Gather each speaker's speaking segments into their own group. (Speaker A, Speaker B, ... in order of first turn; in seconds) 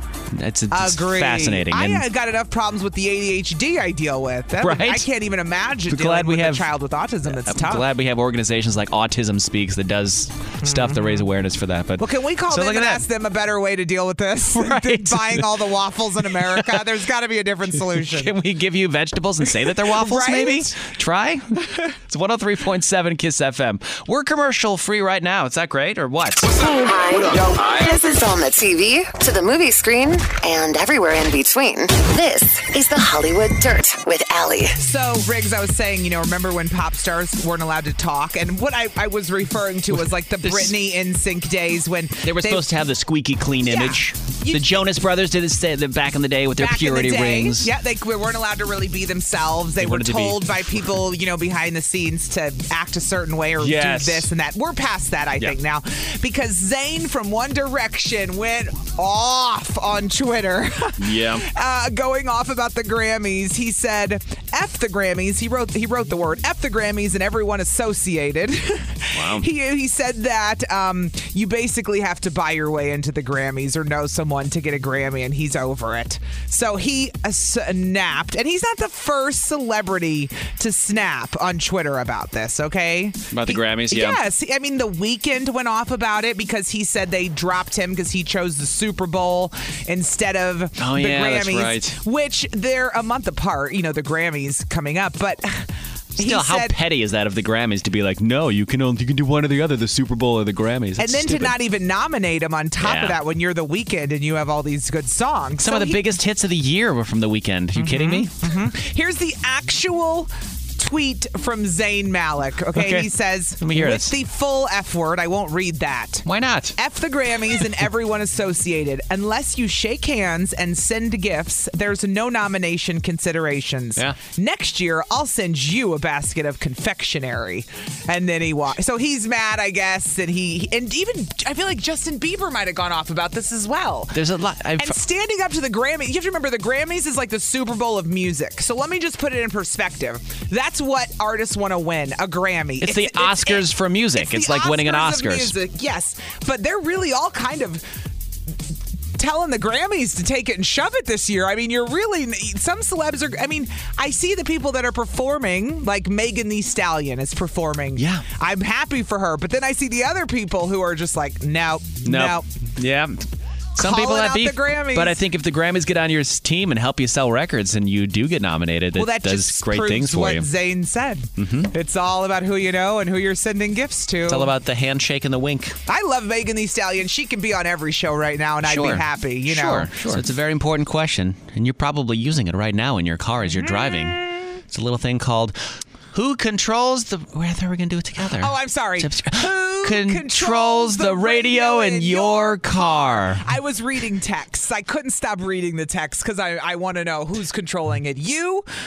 Speaker A: 0.3-2.0, 4.6-5.1, 5.9-6.7, 7.3-13.0, 14.5-15.6, 16.3-16.9, 18.0-26.6, 40.4-40.7, 42.2-47.7, 49.8-50.6, 53.6-54.3, 61.0-61.4, 69.1-69.5, 83.3-84.2, 90.8-92.0, 96.2-101.5, 102.8-103.2, 105.6-108.3, 112.7-114.1, 116.2-116.8, 134.1-135.0, 142.8-145.5, 158.0-158.2, 162.0-163.2, 163.8-170.5, 171.4-171.7, 174.3-175.8, 178.6-185.6, 186.1-193.4
Speaker B: 0.7-7.8, 10.6-11.2, 12.0-18.3, 19.9-20.7, 34.8-42.6, 43.6-44.8, 46.6-96.8, 101.0-106.0, 107.8-116.2, 116.8-134.2, 134.8-147.8, 149.2-162.4, 163.8-165.2, 168.9-174.5, 175.9-180.2, 183.5-184.6, 188.4-198.7
Speaker C: 26.6-34.8